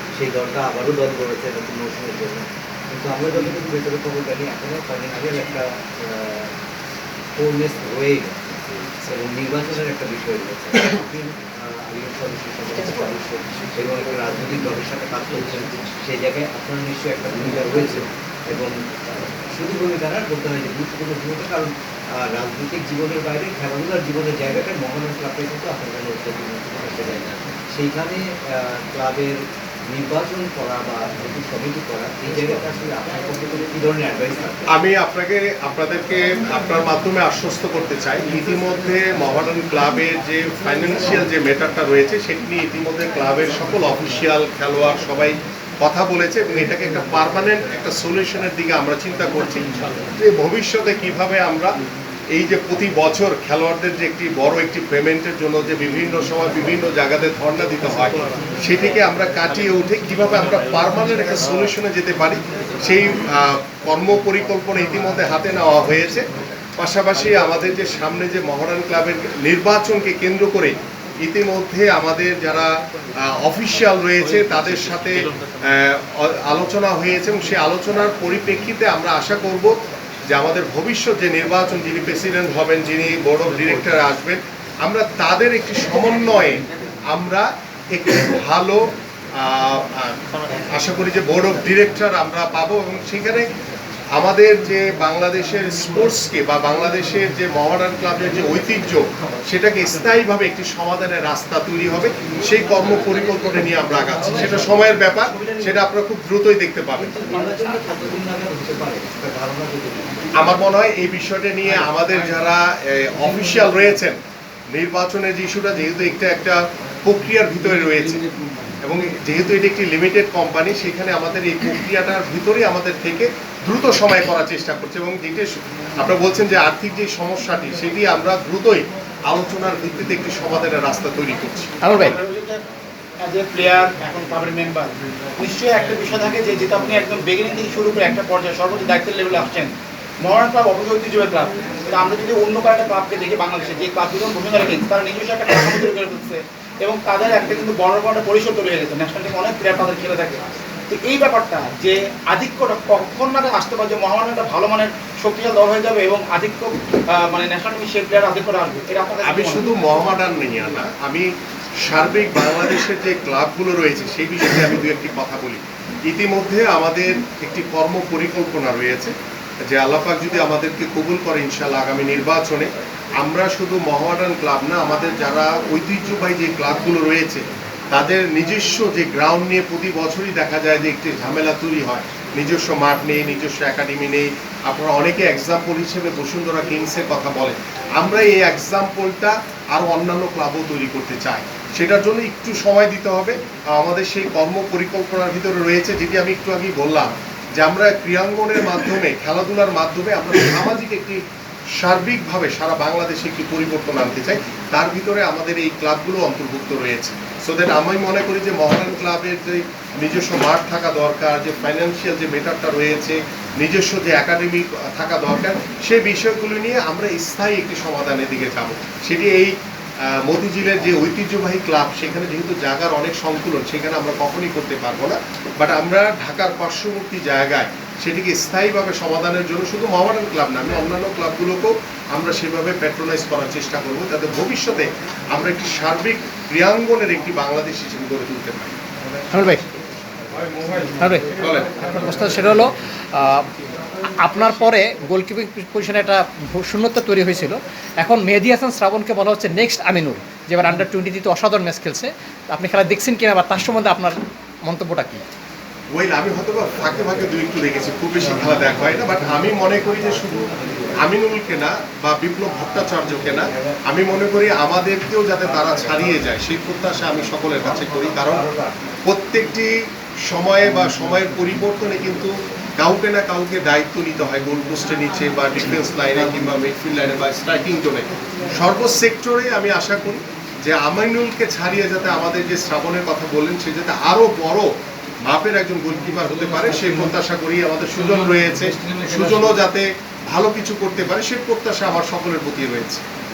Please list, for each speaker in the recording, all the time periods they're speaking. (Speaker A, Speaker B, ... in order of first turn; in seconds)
Speaker A: 0.1-6.5, 7.4-34.6, 107.0-110.3, 260.6-260.9, 268.3-268.8
Speaker B: 34.7-51.7, 52.3-66.2, 66.8-70.7, 71.3-72.7, 73.3-79.7, 80.3-90.2, 90.7-93.5, 94.2-107.2, 110.4-114.2, 114.8-118.2, 118.8-131.7, 159.2-161.3, 161.8-169.1, 169.7-172.7, 173.2-201.2, 201.8-219.5, 220.1-238.8, 241.4-241.7, 255.9-260.4, 261.0-268.4, 269.1-269.7, 270.3-284.7, 285.3-293.0
Speaker C: 107.3-107.9, 131.8-132.2, 239.3-239.6, 241.0-243.5, 244.2-255.2
Speaker D: 131.9-132.6, 133.2-139.7, 140.2-159.7